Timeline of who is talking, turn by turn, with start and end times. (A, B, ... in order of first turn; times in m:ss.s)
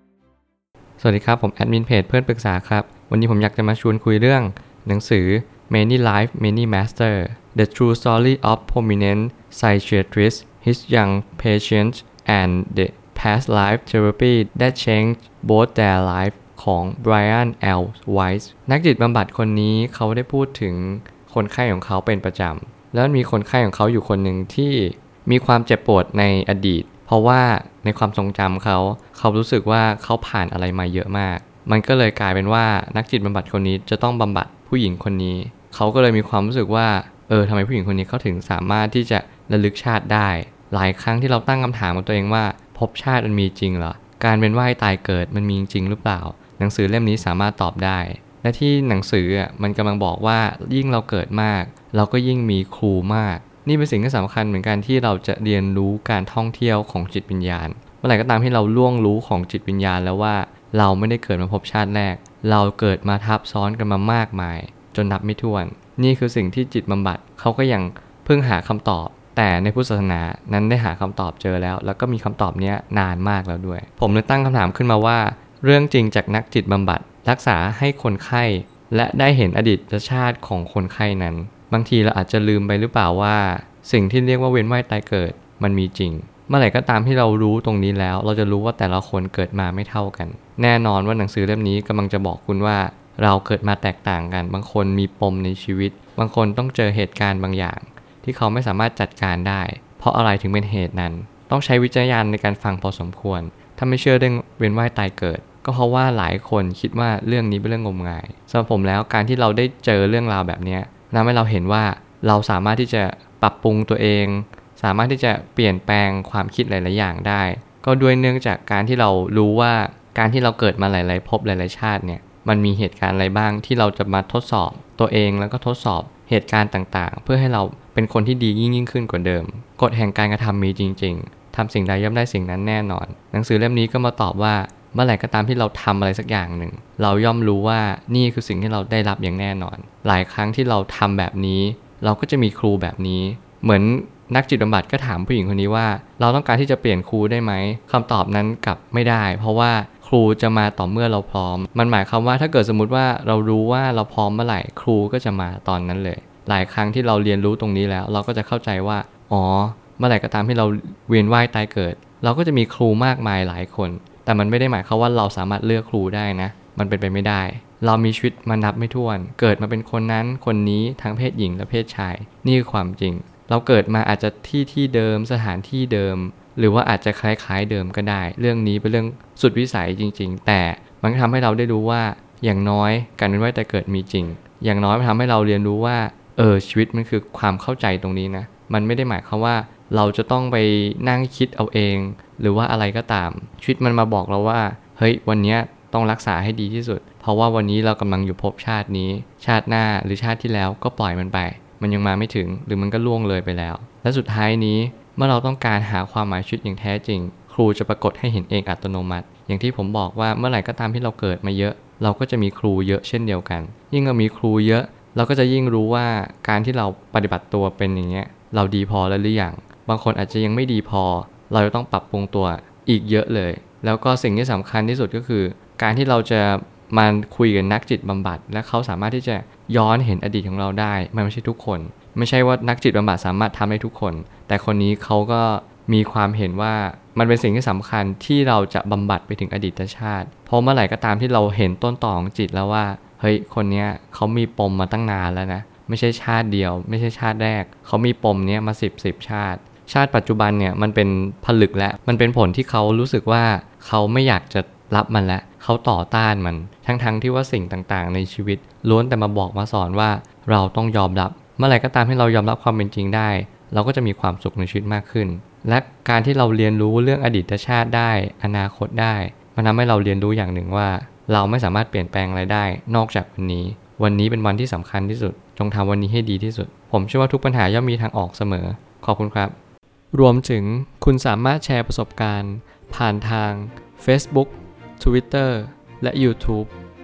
0:01.0-4:39.5 A
4:40.1-4:46.7 A